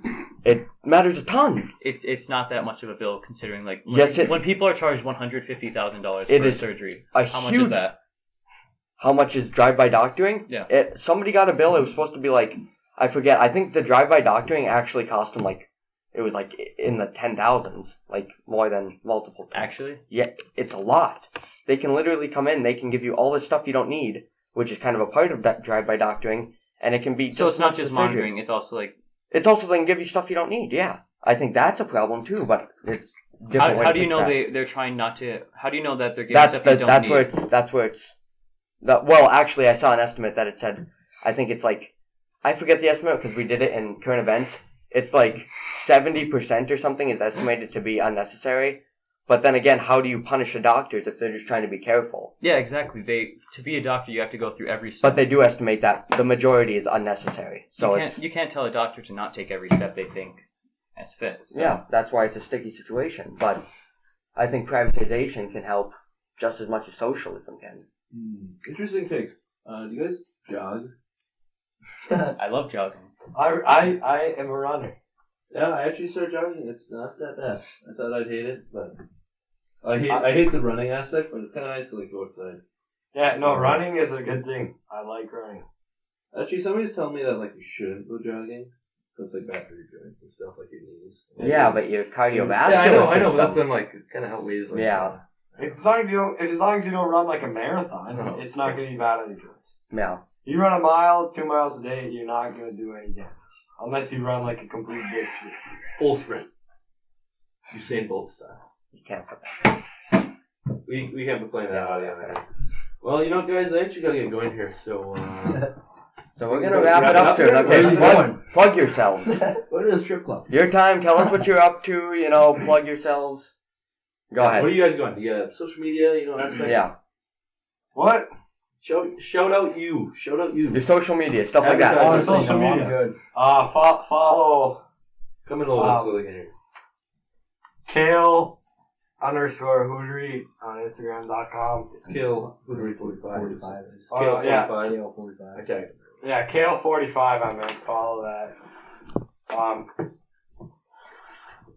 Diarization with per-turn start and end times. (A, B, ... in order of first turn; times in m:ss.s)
0:00.4-0:01.7 A
0:01.8-0:08.0 B
0:03.8-0:04.4 A
0:06.3-0:07.8 A
0:09.0-0:28.3 A
0:19.5-0:20.0 B
0:27.3-0:28.9 B
0:29.3-0:34.4 A
0:33.5-0:37.3 B
0:36.3-0:38.1 A
0:38.8-0:41.9 A
0:42.4-0:52.3 A
0:52.4-0:55.2 B
0:55.0-0:58.2 A
0:57.7-1:00.4 B
1:01.0-1:01.8 B
1:01.5-1:03.6 A
1:04.4-1:07.8 A
1:08.1-1:10.9 C
1:12.4-1:13.1 B
1:13.3-1:14.9 D
1:15.5-1:19.0 C
1:19.8-1:22.6 C
1:23.1-1:25.6 D
1:23.4-1:23.9 C
1:26.3-1:35.7 C
1:31.4-1:33.7 A
1:34.7-1:35.2 A
1:35.6-1:39.7 D
1:38.1-1:38.8 C
1:39.9-1:40.2 A
1:40.4-1:45.6 D
1:46.0-1:46.5 C
1:47.7-1:48.6 C
1:48.9-1:49.8 A
1:50.8-1:52.4 C
1:51.7-1:52.4 A
1:53.0-1:55.7 C
1:56.4-1:59.4 A
1:56.5-1:58.4 C
1:57.6-1:58.4 E
1:59.5-2:00.5 C
2:00.5-2:03.5 A
2:04.3-2:04.8 A
2:04.4-2:06.9 C
2:06.4-2:06.7 D
2:06.6-2:06.9 A
2:07.9-2:08.3 D
2:08.8-2:10.8 C
2:10.7-2:12.3 A
2:11.6-2:12.6 C
2:11.9-2:14.8 D
2:12.0-2:13.2 E
2:15.4-2:16.5 C
2:15.7-2:16.2 D
2:17.8-2:18.6 D
2:19.2-2:22.0 D
2:22.0-2:25.0 C
2:23.0-2:25.6 E
2:24.1-2:24.8 D
2:25.5-2:26.2 C
2:26.2-2:28.5 D
2:29.5-2:29.9 D